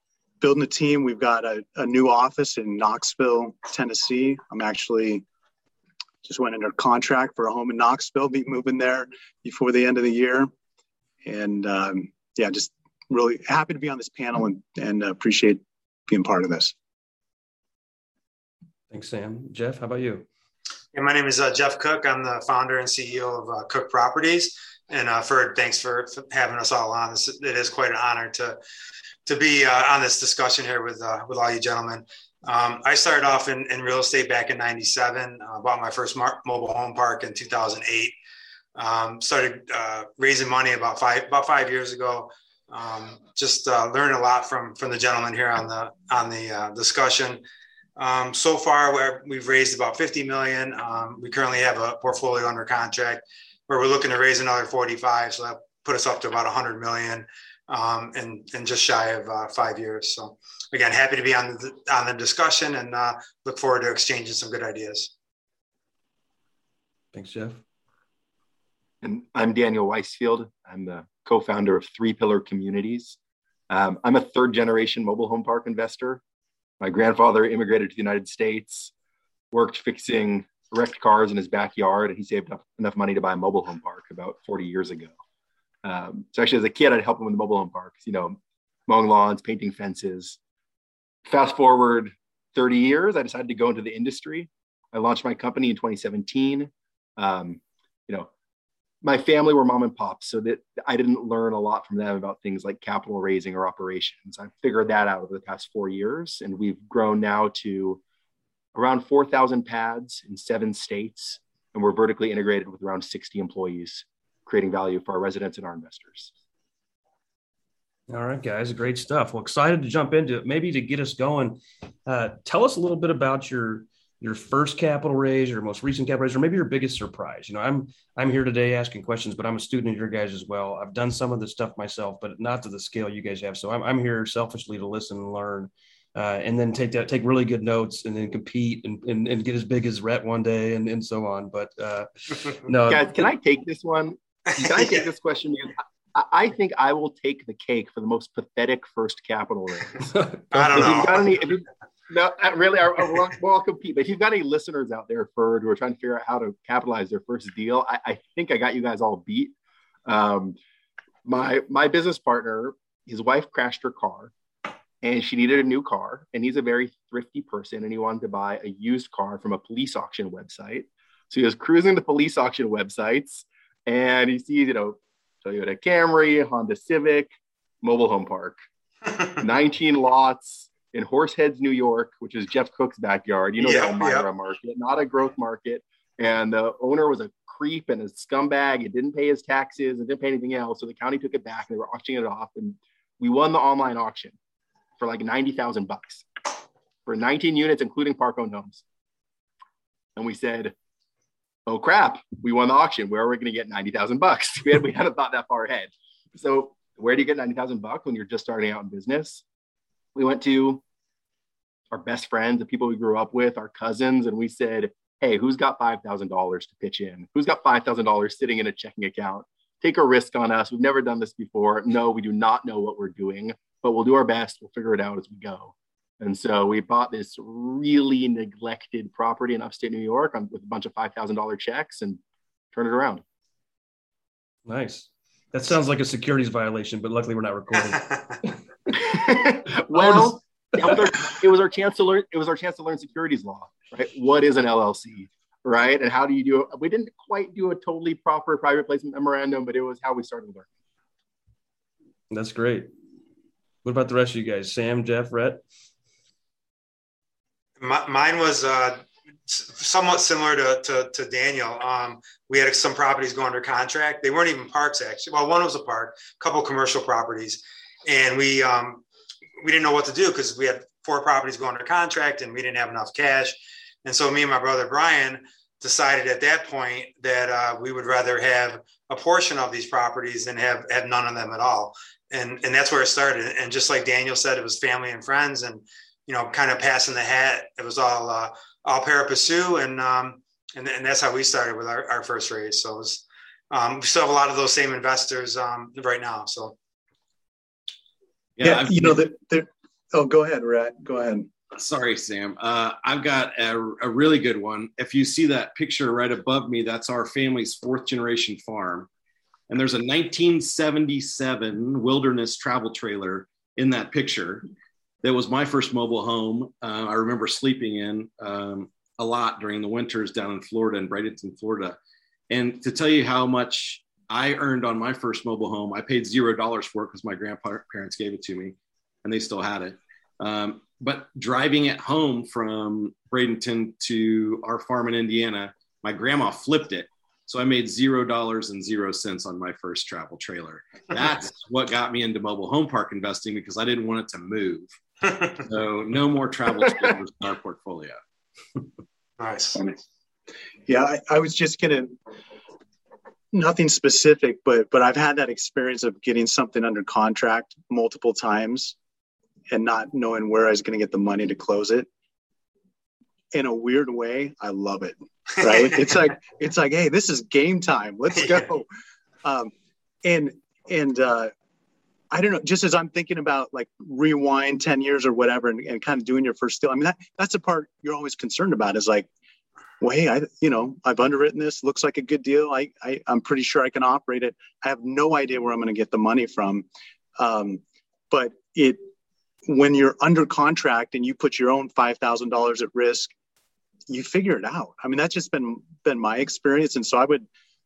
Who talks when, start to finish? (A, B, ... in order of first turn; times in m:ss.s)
0:00.4-0:05.2 A
0:06.2-0:10.5 A
0:11.2-0:16.7 A
0:18.9-0:20.2 B
0:20.9-0:28.6 C
0:29.2-0:38.1 C
0:38.8-0:47.4 C
0:48.0-1:05.1 C
1:07.1-1:07.6 B
1:09.0-1:13.2 D
1:13.7-1:16.2 D
1:16.8-1:18.9 D
1:19.5-1:25.1 D
1:25.8-1:30.4 D
1:31.2-1:38.3 D
1:39.0-1:48.0 D
1:48.7-1:56.3 D
1:58.1-2:23.2 B
2:22.9-2:39.5 D
2:24.6-2:25.0 C
2:30.1-2:31.1 B
2:30.5-2:31.3 C
2:40.0-2:40.6 D
2:41.2-2:44.3 D
2:45.0-2:58.6 D
2:59.3-3:14.4 D
3:03.6-3:04.2 C
3:15.0-3:16.2 D
3:17.0-3:18.8 D
3:20.2-3:20.7 D
3:21.6-3:29.4 D
3:30.1-3:30.8 D
3:31.9-3:52.2 D
3:52.7-3:53.2 D
3:54.6-3:58.5 B
3:59.0-4:10.7 D
3:59.9-4:00.3 B
4:12.3-4:12.9 B
4:13.8-4:15.6 B
4:17.8-4:29.0 C
4:29.6-4:56.7 C
4:58.6-4:59.1 E
4:58.6-5:01.5 A
5:01.7-5:09.1 E
5:09.7-5:14.6 E
5:15.2-5:22.0 E
5:22.5-5:44.9 E
5:45.5-5:48.2 E
5:49.4-5:49.8 C
5:50.8-5:52.1 A
5:53.5-5:58.9 A
5:59.7-6:02.1 A
6:03.5-6:08.8 A
6:08.3-6:08.6 C
6:09.4-6:09.7 A
6:10.2-6:11.5 A
6:12.3-6:19.3 A
6:20.0-6:26.8 A
6:27.4-6:29.1 A
6:29.6-6:33.3 A
6:34.1-6:37.5 A